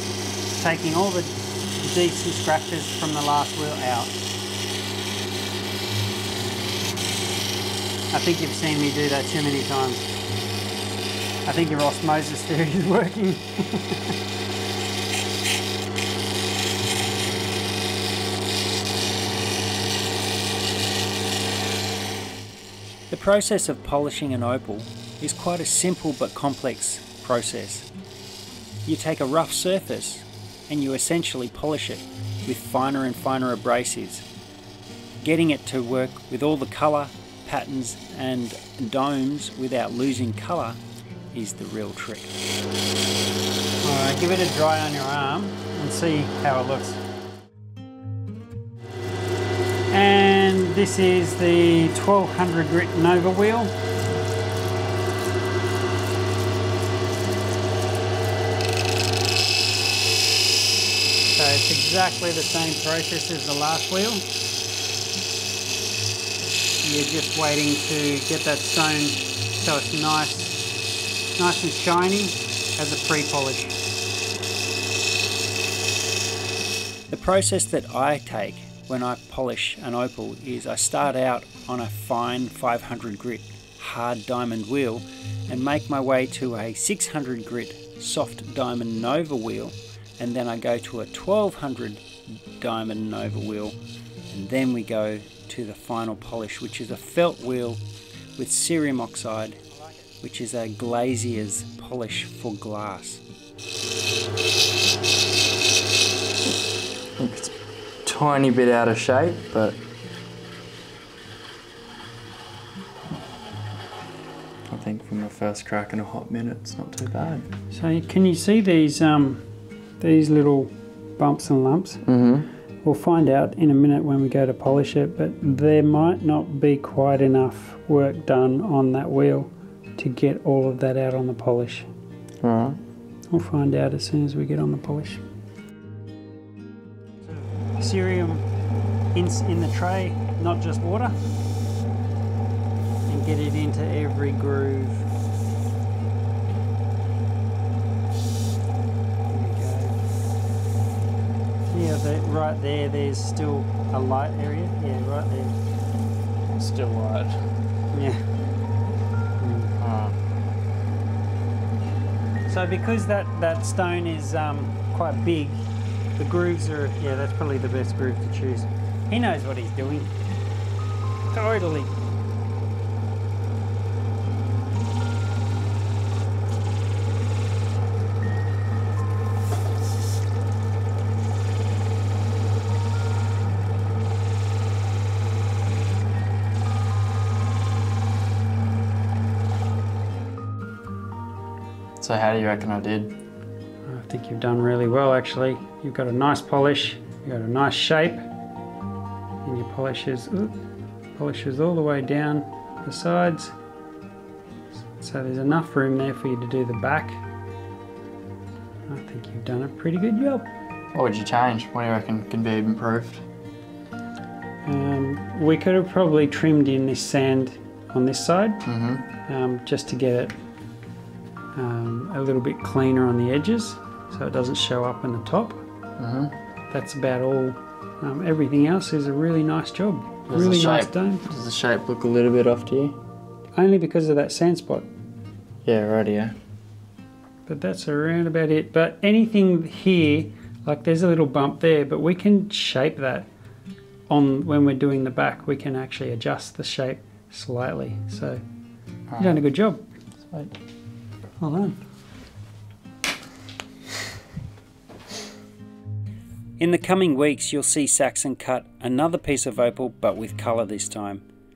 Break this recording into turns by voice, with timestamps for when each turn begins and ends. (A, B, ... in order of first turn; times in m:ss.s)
0:00.6-0:04.1 A
0:08.1-0:10.0 A
0:11.4-0:14.1 A
0:23.1-0:27.8 B
0:28.8-0:34.2 B
0:35.2-0:40.8 B
0:41.3-0:42.3 B
0:43.8-0:47.0 A
0:49.9-0:53.7 A
1:01.4-1:04.3 A
1:06.8-1:10.6 A
1:11.4-1:13.8 A
1:17.1-1:32.0 B
1:32.6-1:33.8 B
1:34.3-1:37.8 B
1:38.4-1:39.6 B
1:40.2-1:43.2 B
1:47.2-1:49.8 C
1:54.7-1:57.5 C
1:57.7-1:59.4 A
2:00.0-2:02.0 A
2:02.0-2:02.5 C
2:02.8-2:11.9 A
2:12.4-2:12.8 C
2:13.3-2:15.2 A
2:17.8-2:18.4 A
2:19.1-2:21.2 A
2:23.1-2:25.1 A
2:29.3-2:30.0 A
2:31.7-2:35.6 A
2:36.5-2:37.4 C
2:37.9-2:38.2 A
2:39.4-2:39.7 A
2:39.8-2:40.2 C
2:42.5-2:45.6 A
2:46.2-2:50.1 A
2:51.3-2:51.9 A
3:12.0-3:13.1 C
3:13.9-3:18.2 A
3:19.4-3:20.6 A
3:21.2-3:23.5 A
3:24.9-3:27.2 A
3:28.9-3:30.5 A
3:30.9-3:33.2 C
3:34.6-3:38.6 A
3:38.6-3:39.0 C
3:39.2-3:40.3 A
3:41.5-3:45.6 A
3:46.0-3:46.3 C
3:46.7-3:51.2 A
3:50.3-3:53.0 C
3:53.6-3:54.9 A
3:55.6-3:56.3 C
3:57.5-4:03.3 A
4:04.1-4:08.4 A
4:09.1-4:09.4 C
4:09.2-4:09.8 A
4:10.2-4:10.5 C
4:11.4-4:11.8 A
4:16.6-4:21.2 B